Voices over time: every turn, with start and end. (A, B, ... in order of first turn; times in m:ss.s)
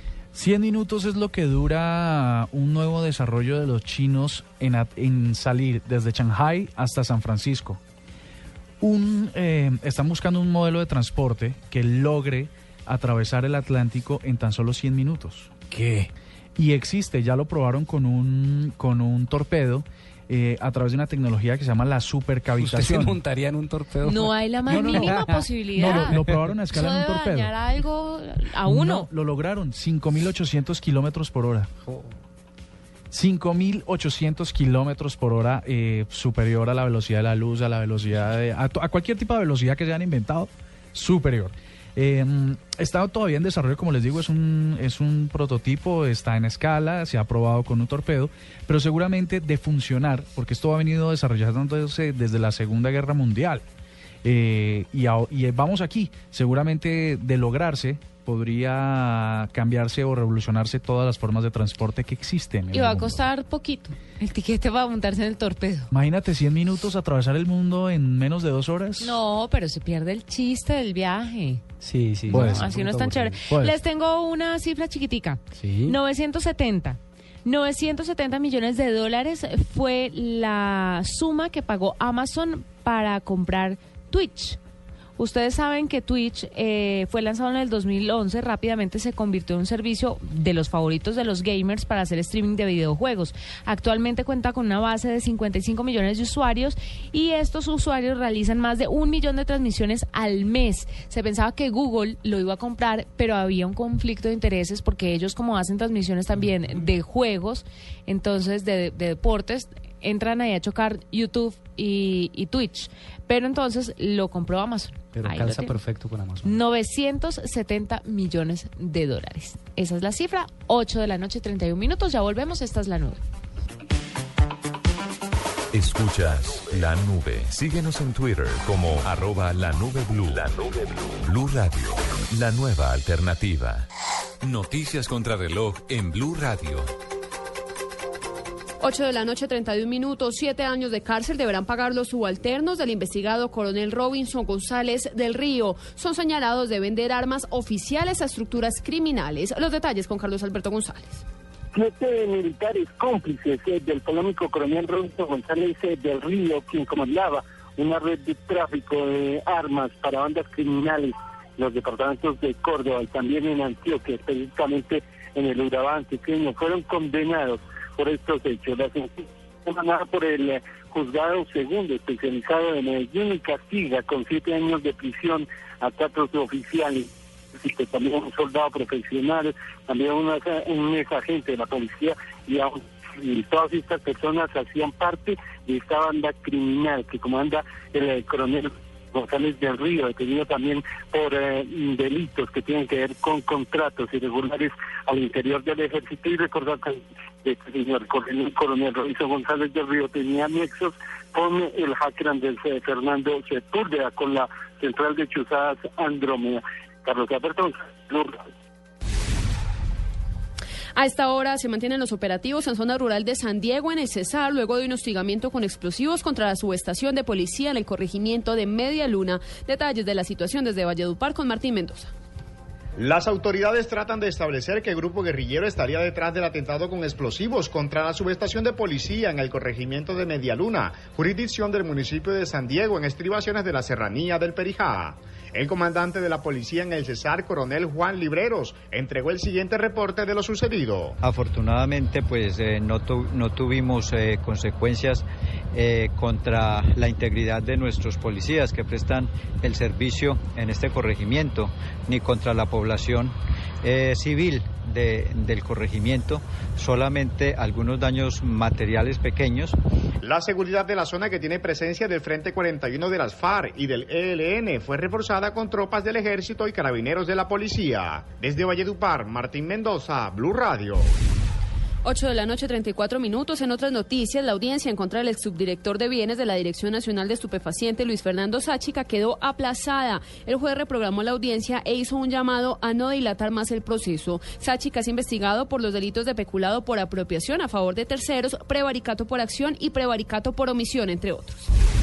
0:00.3-0:07.8 A
0:08.8-0:15.7 A
0:15.7-0:16.1 B
0:16.6-0:23.2 A
0:22.6-0:26.4 B
0:24.0-0:29.1 C
0:24.7-0:27.5 A
0:28.6-0:31.7 A
0:31.8-0:32.1 B
0:33.1-0:53.6 A
0:54.2-1:03.2 A
1:02.7-1:05.9 C
1:05.9-1:09.2 A
1:09.0-1:11.6 C
1:11.8-1:13.5 B
1:12.3-1:24.6 C
1:12.3-1:12.8 A
1:13.5-1:13.8 A
1:15.6-1:16.0 B
1:25.2-1:55.8 C
1:55.1-1:56.6 B
1:56.4-2:03.2 C
2:05.7-2:13.9 D
2:14.4-2:16.9 D
2:18.8-2:31.2 E
2:31.7-3:28.4 F
3:31.0-3:42.1 E
3:43.0-4:01.2 G
4:01.2-4:19.8 H
4:20.2-4:31.1 G
4:32.0-4:51.7 E